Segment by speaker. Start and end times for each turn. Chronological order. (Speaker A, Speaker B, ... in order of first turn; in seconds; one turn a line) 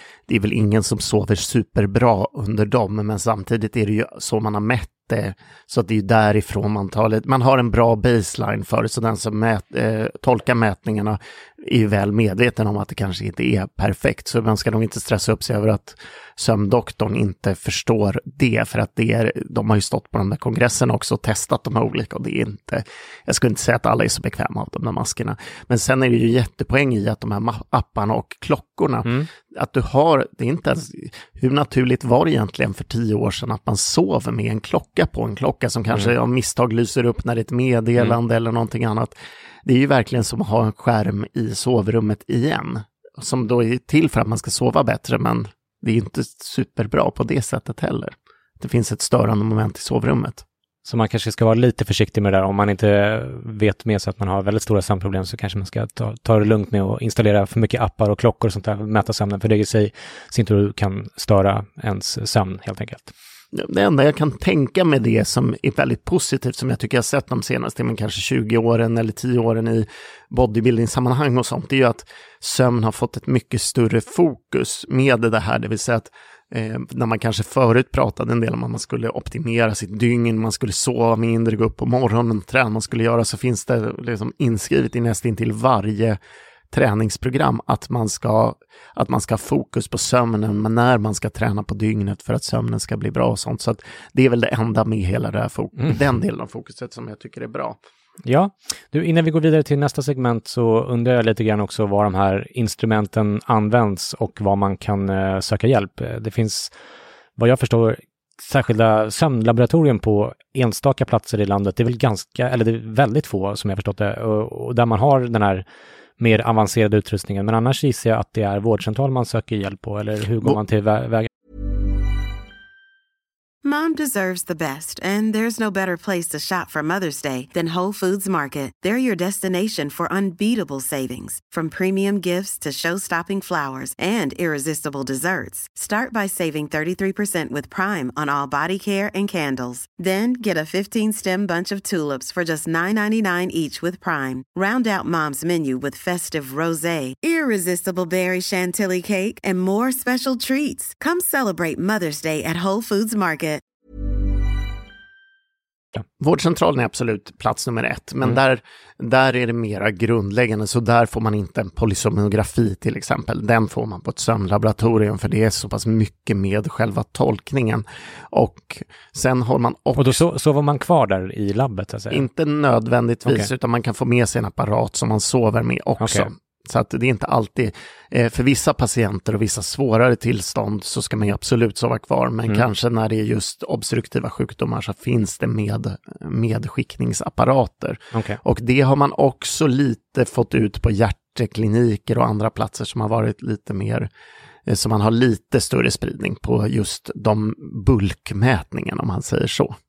Speaker A: 0.3-50.4
Speaker B: 50.9-63.1
Speaker A: 63.5-86.2
Speaker A: 86.7-97.8
Speaker B: 98.2-106.7
Speaker B: 107.4-115.7
Speaker B: 116.2-121.3
Speaker C: 123.6-153.6
Speaker A: 156.2-170.2
Speaker B: 169.9-172.2
Speaker A: 172.1-194.1
Speaker B: 173.2-173.5
Speaker B: 176.0-176.3
Speaker B: 188.1-188.4
Speaker A: 194.7-199.8